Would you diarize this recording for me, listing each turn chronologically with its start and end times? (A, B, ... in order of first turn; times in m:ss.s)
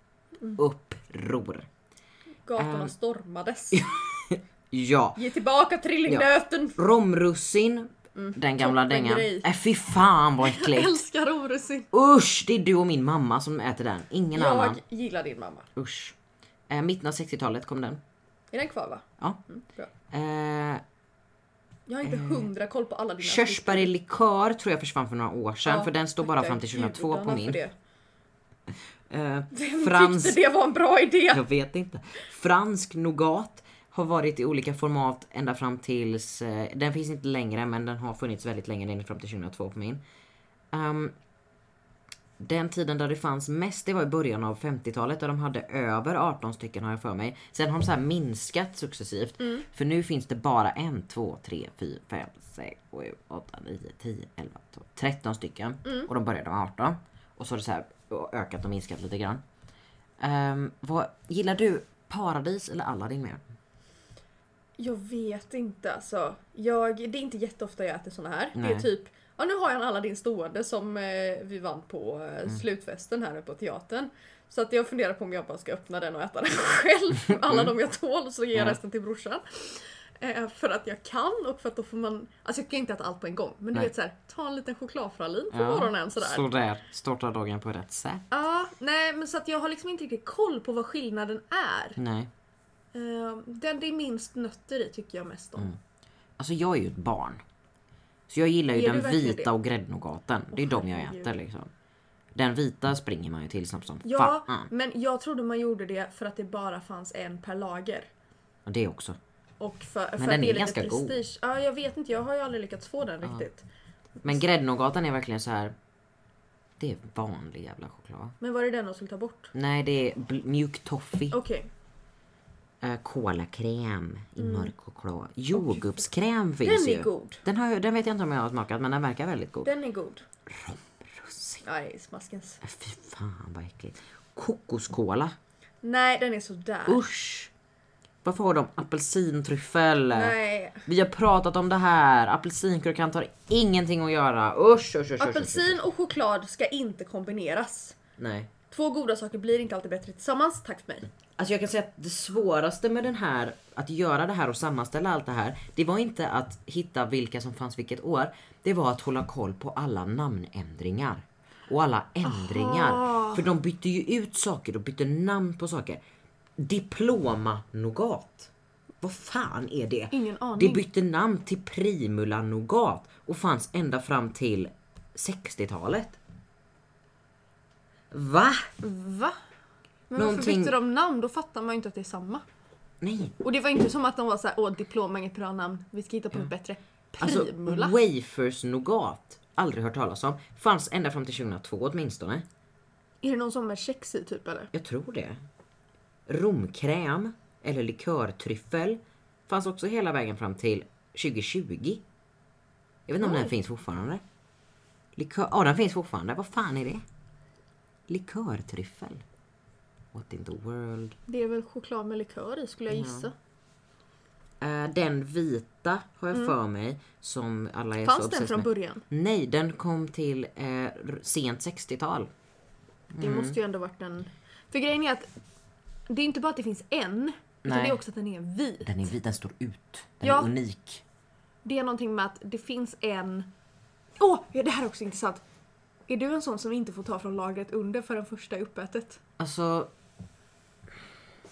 0:00.6-0:01.7 A
0:02.5-0:03.9 B
0:02.6-0:02.9 A
0:03.7-0:05.2 A
0:05.2-0:06.8 B
0:06.1-0:11.0 A
0:08.1-0:09.5 B
0:10.4-0:11.9 B
0:11.9-0:14.8 A
0:14.3-0:15.7 B
0:15.8-0:16.2 A
0:16.7-0:18.0 A
0:18.5-0:19.9 B
0:20.1-0:20.8 A
0:21.9-0:23.9 B
0:22.0-0:22.5 A
0:23.2-0:27.6 A
0:25.6-0:27.7 B
0:29.1-0:30.4 A
0:29.5-0:31.4 B
0:31.3-0:40.0 A
0:40.7-0:41.1 A
0:42.4-0:59.4 A
0:49.4-0:49.6 B
0:55.8-0:56.1 B
1:00.2-1:03.4 A
1:04.8-1:26.5 B
1:08.5-1:08.9 A
1:17.5-1:17.7 A
1:25.5-1:28.2 A
1:28.3-1:32.0 B
1:32.0-1:32.3 A
1:32.9-1:35.8 B
1:36.4-1:37.4 A
1:38.3-1:41.7 A
1:38.7-1:39.5 B
1:40.5-1:41.3 B
1:42.4-1:44.7 A
1:44.0-1:48.1 B
1:48.6-1:49.2 A
1:49.6-1:53.6 B
1:50.2-1:51.2 A
1:54.2-1:55.8 A
1:56.8-1:58.4 A
1:58.4-1:59.5 B
1:59.5-2:01.4 A
2:01.3-2:01.7 B
2:02.8-2:09.7 A
2:04.4-2:04.7 B
2:05.5-2:05.9 B
2:06.6-2:07.4 B
2:09.6-2:10.2 B
2:10.5-2:11.6 A
2:11.6-2:12.6 B
2:12.6-2:15.4 A
2:15.8-2:17.0 B
2:16.9-2:17.5 A
2:18.2-2:25.8 A
2:20.1-2:20.8 B
2:25.2-2:28.0 B
2:28.2-2:28.5 A
2:28.7-2:31.1 B
2:31.4-2:46.0 A
2:42.2-2:43.4 B
2:46.6-2:56.2 A
2:50.1-2:50.8 B
2:58.1-2:58.7 A
2:58.8-2:59.4 B
3:00.1-3:02.4 B
3:00.1-3:00.8 A
3:03.0-3:03.4 A
3:03.4-3:08.0 B
3:07.2-3:12.4 A
3:13.2-3:14.7 B
3:14.7-3:15.4 A
3:16.3-3:22.0 A
3:23.1-3:24.2 A
3:23.2-3:23.5 B
3:25.1-3:27.0 A
3:28.1-3:29.2 A
3:30.1-3:31.2 A
3:31.3-3:33.3 B
3:32.9-3:33.3 A
3:34.6-3:42.3 A
3:38.0-3:39.0 B
3:43.1-3:43.6 A
3:43.2-3:45.3 B
3:46.1-3:48.9 B
3:47.6-3:48.0 A
3:48.8-3:51.0 A
3:50.2-3:50.5 B
3:51.6-3:53.5 B
3:54.2-3:55.4 B
3:56.1-3:59.2 B
3:59.4-3:59.9 A